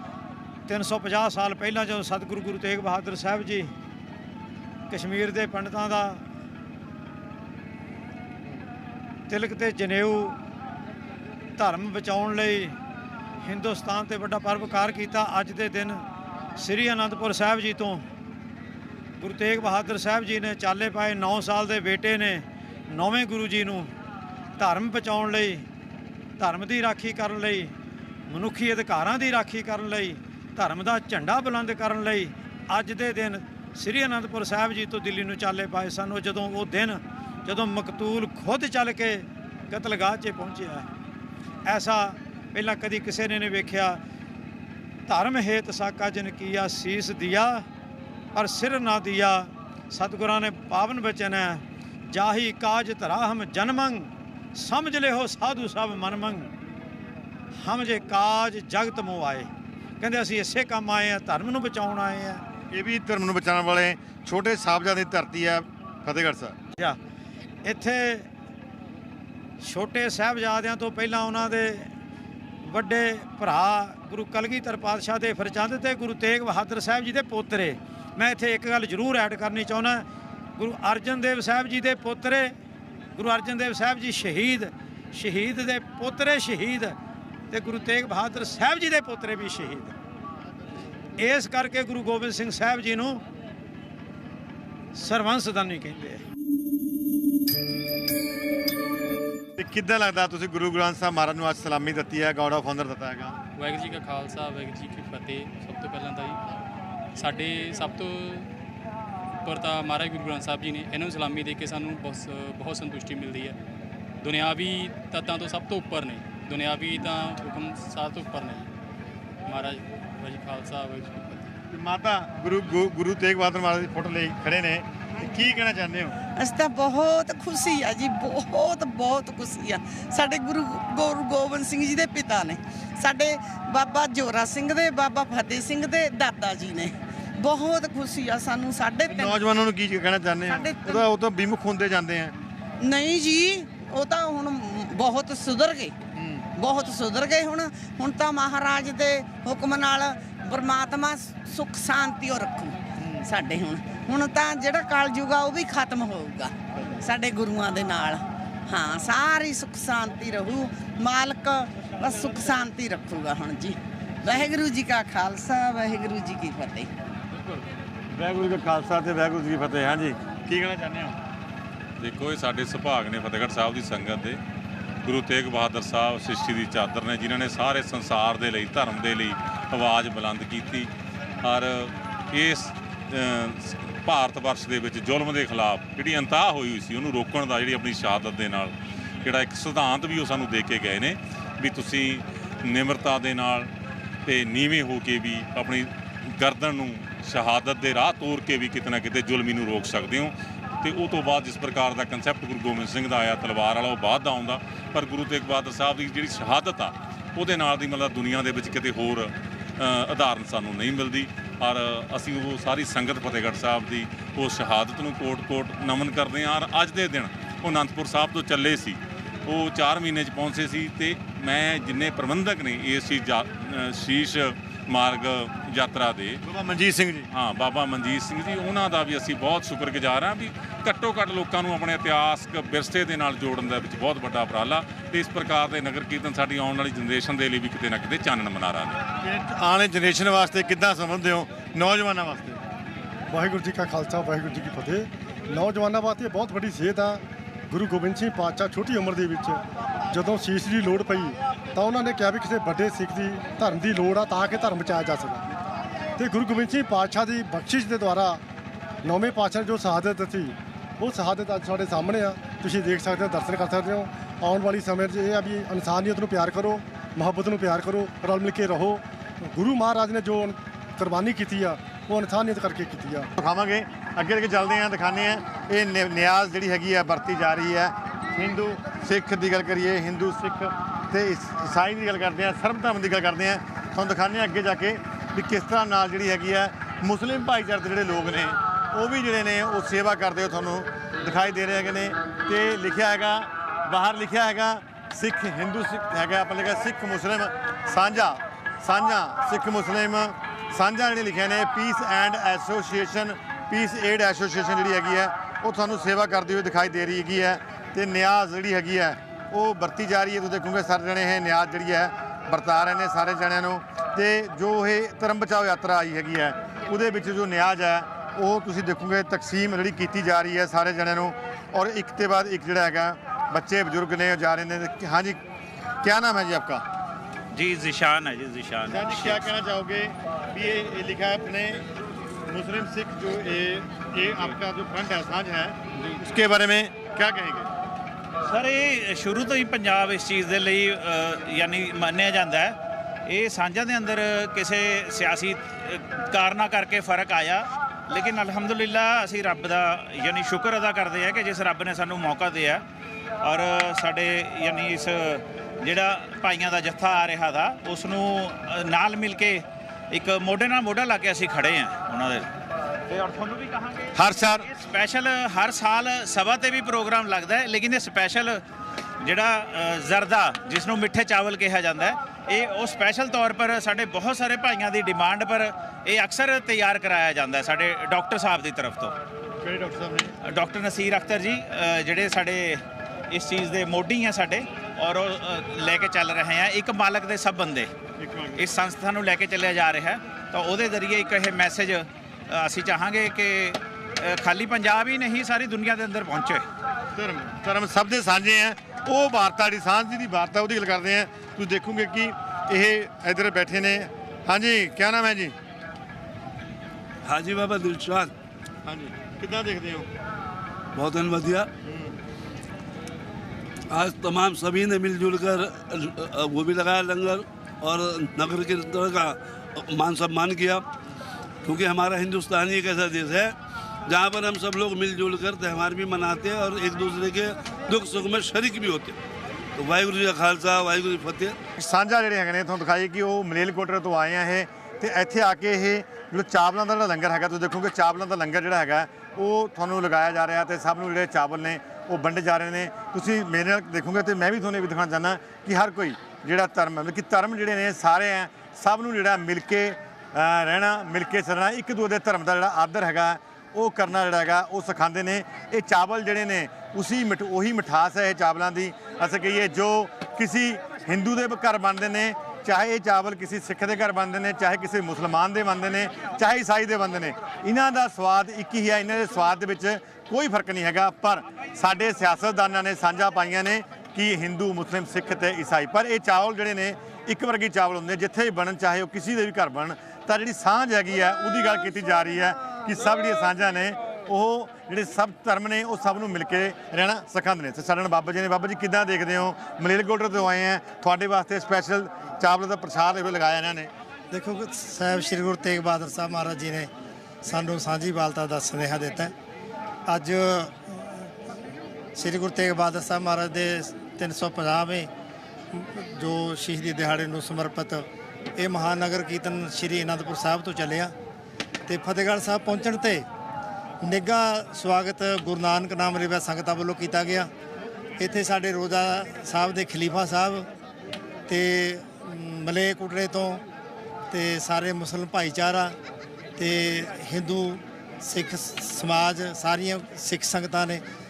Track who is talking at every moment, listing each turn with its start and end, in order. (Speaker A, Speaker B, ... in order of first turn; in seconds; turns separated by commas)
Speaker A: 0.7-3.7, Speaker A: 4.9-6.2, Speaker A: 9.3-10.4, Speaker A: 11.6-12.8, Speaker A: 13.4-16.1, Speaker A: 16.6-18.1, Speaker A: 19.2-23.9, Speaker A: 24.6-25.7, Speaker A: 26.4-27.7, Speaker A: 28.3-40.9, Speaker A: 41.7-44.0, Speaker A: 45.1-47.7, Speaker A: 48.4-56.5, Speaker A: 57.6-62.5, Speaker B: 62.7-66.6, Speaker A: 67.6-68.3, Speaker A: 69.6-71.9, Speaker A: 72.6-82.6, Speaker A: 83.2-87.0, Speaker A: 87.5-90.0, Speaker A: 91.2-93.2, Speaker A: 94.9-96.2, Speaker B: 99.6-103.4, Speaker C: 103.6-106.4, Speaker C: 107.2-108.5, Speaker C: 109.4-113.6, Speaker C: 114.2-118.7, Speaker C: 119.5-121.5, Speaker B: 121.7-126.2, Speaker D: 126.4-139.4, Speaker B: 139.1-142.3, Speaker D: 140.5-141.1, Speaker D: 142.8-145.9, Speaker B: 146.2-146.5, Speaker D: 146.6-166.9, Speaker B: 153.0-153.2, Speaker B: 167.3-171.2, Speaker E: 172.0-174.4, Speaker E: 175.0-180.9, Speaker E: 181.4-193.7, Speaker E: 194.3-226.4, Speaker B: 226.4-227.3, Speaker E: 227.3-239.0, Speaker B: 239.2-242.6, Speaker F: 243.3-255.4, Speaker F: 256.2-258.4, Speaker F: 259.0-273.3, Speaker B: 273.4-325.4, Speaker B: 326.0-326.9, Speaker G: 327.5-329.5, Speaker B: 328.9-331.9, Speaker B: 332.5-337.7, Speaker G: 338.4-352.8, Speaker G: 353.4-362.5, Speaker G: 363.1-364.1, Speaker B: 364.1-364.7, Speaker G: 364.7-368.6, Speaker G: 369.2-379.1, Speaker B: 379.6-380.3, Speaker G: 380.4-387.9, Speaker B: 388.2-388.6, Speaker G: 388.6-396.6, Speaker B: 397.1-405.6, Speaker H: 407.2-408.3, Speaker B: 408.9-410.1, Speaker H: 410.9-411.7, Speaker B: 411.9-412.2, Speaker H: 413.9-420.9, Speaker H: 421.6-423.6, Speaker H: 424.1-429.2, Speaker H: 429.8-431.6, Speaker B: 431.8-493.9, Speaker I: 494.3-496.9, Speaker I: 497.4-499.3, Speaker I: 500.1-501.3, Speaker I: 502.2-505.1, Speaker I: 505.7-511.1, Speaker I: 511.9-513.2, Speaker I: 514.0-517.5, Speaker I: 518.2-520.7, Speaker I: 521.5-523.6, Speaker I: 524.3-526.0, Speaker I: 526.6-531.0